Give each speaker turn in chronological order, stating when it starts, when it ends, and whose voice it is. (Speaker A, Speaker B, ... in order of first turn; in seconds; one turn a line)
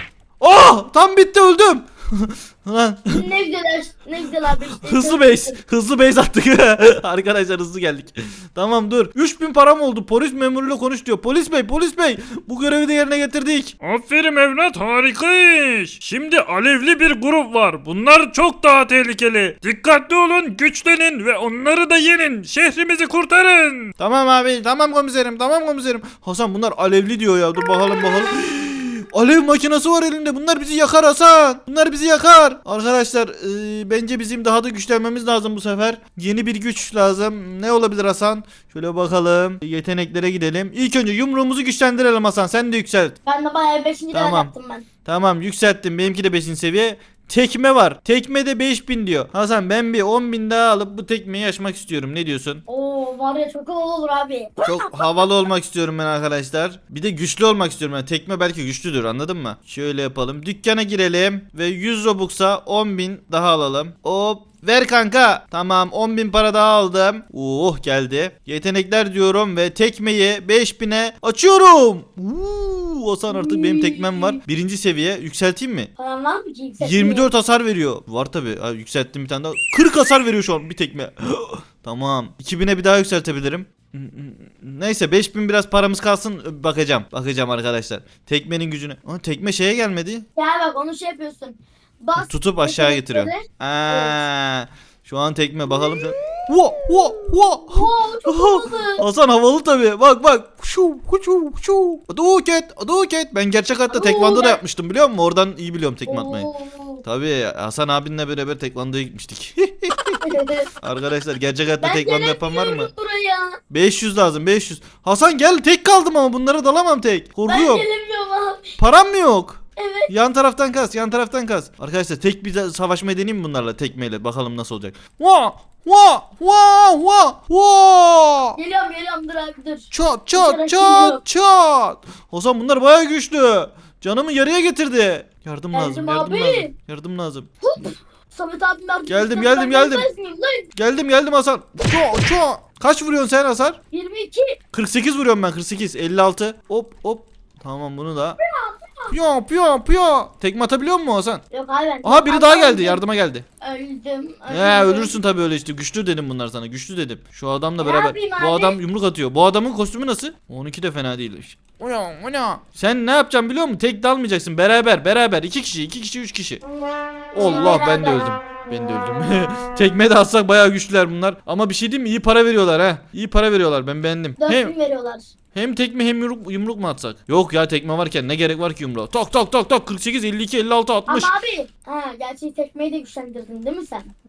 Speaker A: 0.4-3.2
Speaker B: 3.1-5.6
Speaker A: 4.5-13.8
Speaker C: 13.8-23.9
Speaker A: 24.0-43.2
Speaker B: 43.2-44.9
Speaker A: 44.1-44.5
Speaker A: 45.0-52.6
Speaker B: 52.7-55.3
Speaker A: 54.6-75.9
Speaker B: 73.3-74.4
Speaker B: 76.0-77.3
Speaker A: 76.8-90.3
Speaker B: 90.4-94.2
Speaker A: 92.2-106.5
Speaker B: 97.7-99.0
Speaker B: 103.9-104.6
Speaker B: 106.1-107.0
Speaker A: 107.0-112.9
Speaker B: 110.2-110.7
Speaker B: 111.8-113.6
Speaker A: 113.7-117.9
Speaker B: 117.5-118.8
Speaker A: 118.8-128.6
Speaker B: 119.8-120.1
Speaker B: 128.6-131.2
Speaker A: 129.9-137.5
Speaker B: 135.7-136.7
Speaker B: 137.6-140.7
Speaker A: 139.1-140.1
Speaker A: 140.8-143.8
Speaker B: 143.9-144.6
Speaker A: 144.7-148.4
Speaker B: 148.4-149.1
Speaker A: 149.1-151.4
Speaker B: 151.5-153.0
Speaker A: 152.0-153.4
Speaker B: 153.6-155.2
Speaker A: 154.5-166.6
Speaker B: 157.8-158.8
Speaker A: 167.3-174.7
Speaker B: 167.3-168.3
Speaker B: 174.4-175.3
Speaker A: 175.5-181.3
Speaker B: 181.1-184.1